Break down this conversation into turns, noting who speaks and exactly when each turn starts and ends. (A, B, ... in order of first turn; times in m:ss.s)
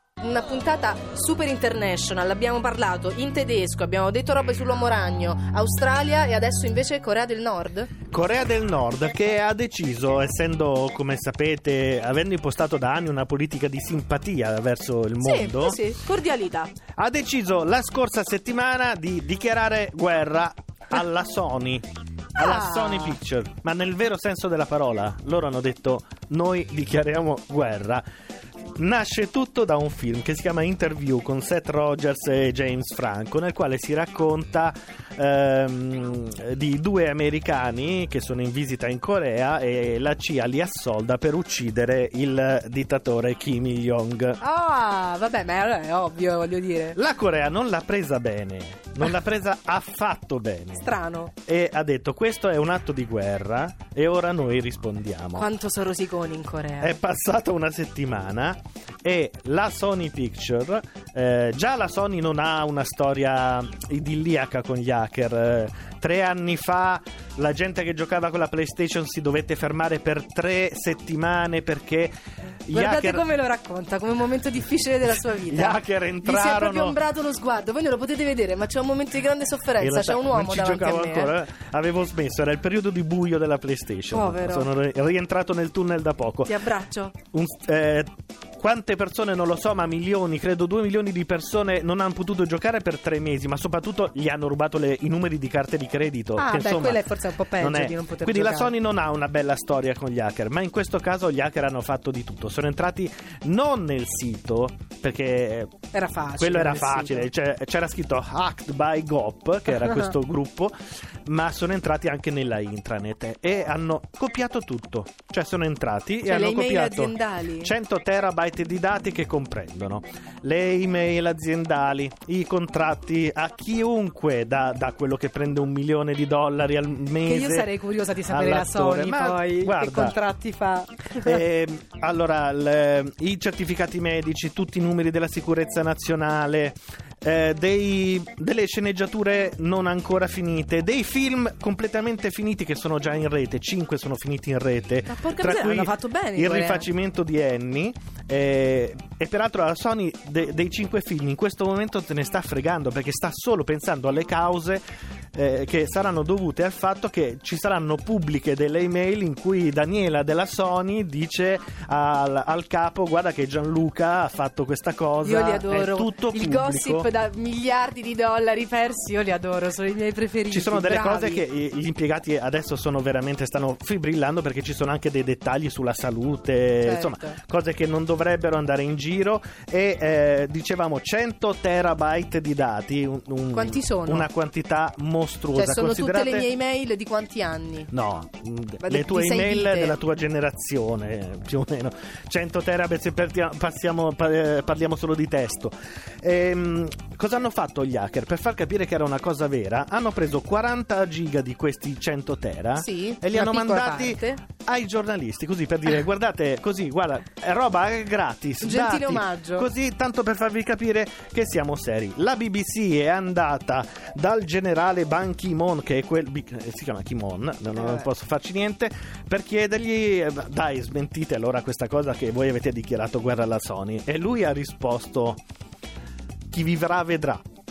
0:00.2-0:08.0 A
0:08.1-0:15.8 B
0:15.2-0:16.7 A
0:17.0-0:28.0 B
0:22.4-0:23.2 A
0:28.8-0:44.4 B
0:44.4-0:47.0 A
0:46.9-0:50.9 B
0:50.8-0:51.3 A
0:51.5-0:55.5 B
0:55.4-0:57.0 A
0:56.8-1:12.1 B
1:12.7-1:13.3 B
1:12.7-1:21.3 A
1:15.3-1:17.0 B
1:19.8-1:26.6 B
1:24.1-1:24.7 A
1:26.5-1:27.2 A
1:27.3-1:37.1 B
1:36.4-1:38.7 A
1:37.6-1:45.7 B
1:45.9-1:47.3 A
1:46.4-1:50.7 B
1:49.7-1:50.1 A
1:51.3-2:07.7 B
1:56.2-1:57.7 A
2:07.2-2:11.4 A
2:08.3-2:10.2 B
2:11.2-2:34.8 B
2:25.1-2:26.9 A
2:35.4-2:47.1 B
2:45.2-2:51.4 A
2:50.5-3:06.5 B
2:56.8-2:57.4 A
3:03.5-3:04.3 A
3:05.5-3:07.9 A
3:07.9-3:45.4 B
3:08.8-3:10.0 A
3:22.8-3:24.4 A
3:28.6-3:29.7 A
3:37.8-3:38.1 A
3:46.5-3:47.4 B